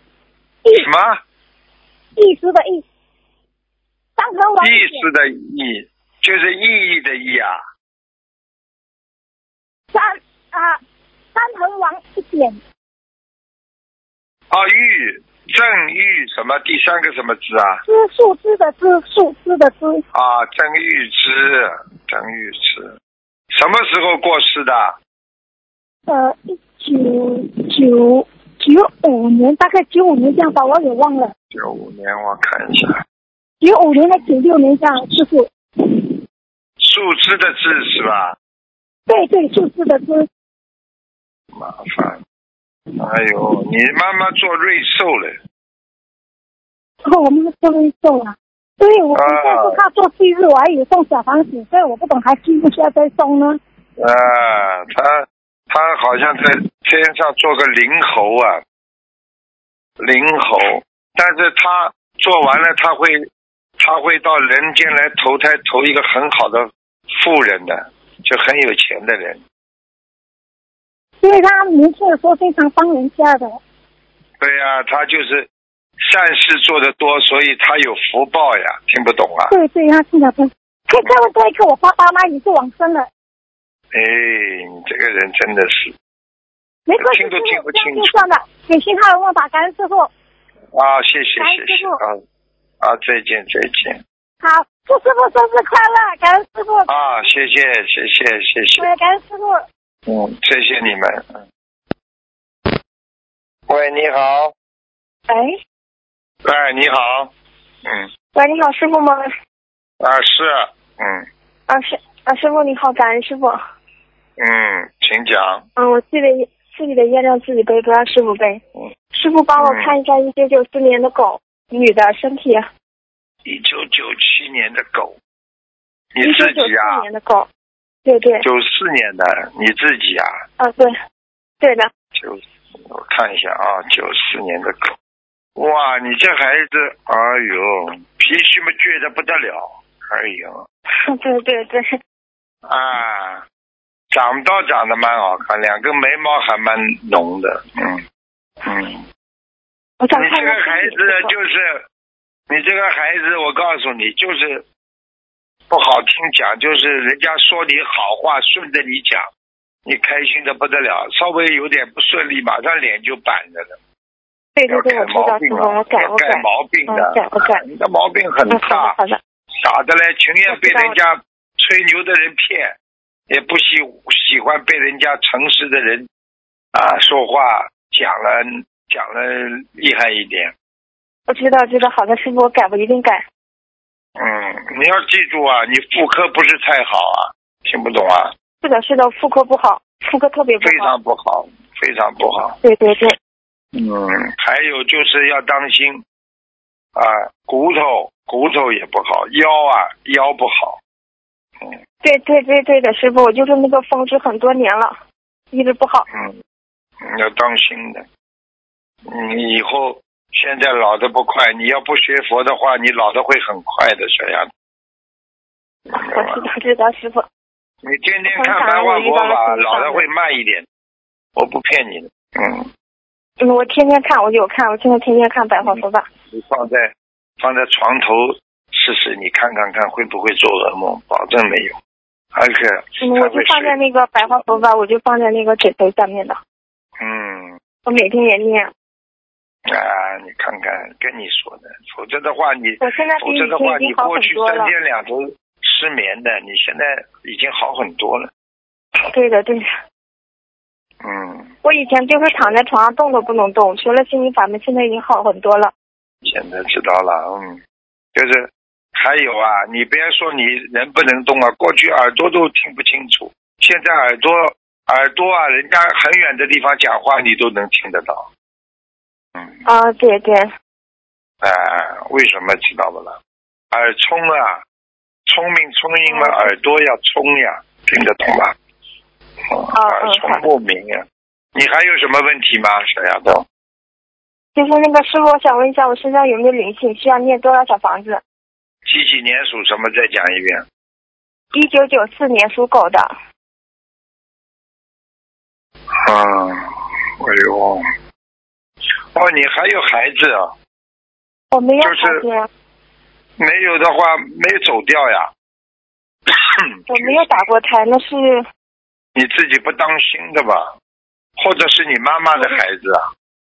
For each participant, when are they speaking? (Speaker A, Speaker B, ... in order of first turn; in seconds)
Speaker A: 0.7-1.2, 4.6-7.6, 14.5-17.8, 20.1-22.9, 23.5-25.0, 31.5-33.0, 36.8-38.4, 41.5-42.2, 43.0-45.4, 49.1-49.8, 54.0-58.6, 60.0-63.3, 63.8-69.4, 74.4-75.5, 76.0-79.5, 83.9-85.9, 87.0-88.2, 90.7-92.2, 92.8-94.0, 96.9-98.9, 100.1-101.4, 103.7-104.5, 106.4-107.3, 110.0-111.2, 114.4-115.6, 119.6-119.9, 123.4-125.2, 126.1-127.0, 128.4-130.3, 132.1-134.9, 135.6-140.7, 142.6-143.4, 144.1-148.0, 148.6-149.0, 150.1-151.8, 152.5-154.6, 155.7-159.3, 159.8-163.8, 164.7-168.9, 169.6-172.7, 173.3-176.1, 176.7-180.5, 184.2-188.3, 190.6-192.6, 193.7-196.0, 196.9-200.8, 207.0-208.1, 209.1-214.5, 215.9-216.4, 217.8-220.7, 221.3-222.7, 225.6-231.8, 232.3-234.6, 237.0-237.6, 239.7-248.3, 251.0-251.5, 252.3-252.5, 256.2-257.6, 258.1-268.3, 271.4-273.2, 273.7-274.6, 275.3-278.5, 279.5-281.0, 281.5-283.4, 288.9-290.6, 295.9-297.8, 299.1-300.5, 301.8-302.2, 303.4-305.3, 306.3-307.3, 309.1-310.7, 311.4-313.1
Speaker B: 2.2-2.8, 4.2-5.0, 9.9-10.8, 11.3-12.6, 17.9-20.0, 26.1-31.3, 33.6-36.1, 39.1-40.3, 47.0-53.6, 71.2-73.6, 79.5-83.1, 86.9-90.1, 91.4-92.0, 94.4-97.2, 98.8-99.6
Speaker C: 105.3-105.5, 108.3-109.3, 111.7-113.6, 115.8-118.6, 119.1-122.7, 126.2-127.5, 128.0-128.4, 130.6-130.9, 131.6-131.9, 140.9-141.9, 150.0-151.3, 164.6-167.6, 168.5-169.2, 170.5-170.9, 181.3-183.2, 188.6-190.9, 192.6-193.2, 202.0-205.0, 205.5-206.1, 215.9-217.2, 218.3-220.1, 223.4-226.1, 233.0-236.4, 237.8-238.7, 242.8-244.7, 249.1-249.7, 251.6-255.7, 269.6-270.5, 276.1-276.5, 279.7-280.4, 284.6-288.2, 291.5-293.1, 301.5-302.5, 306.9-308.4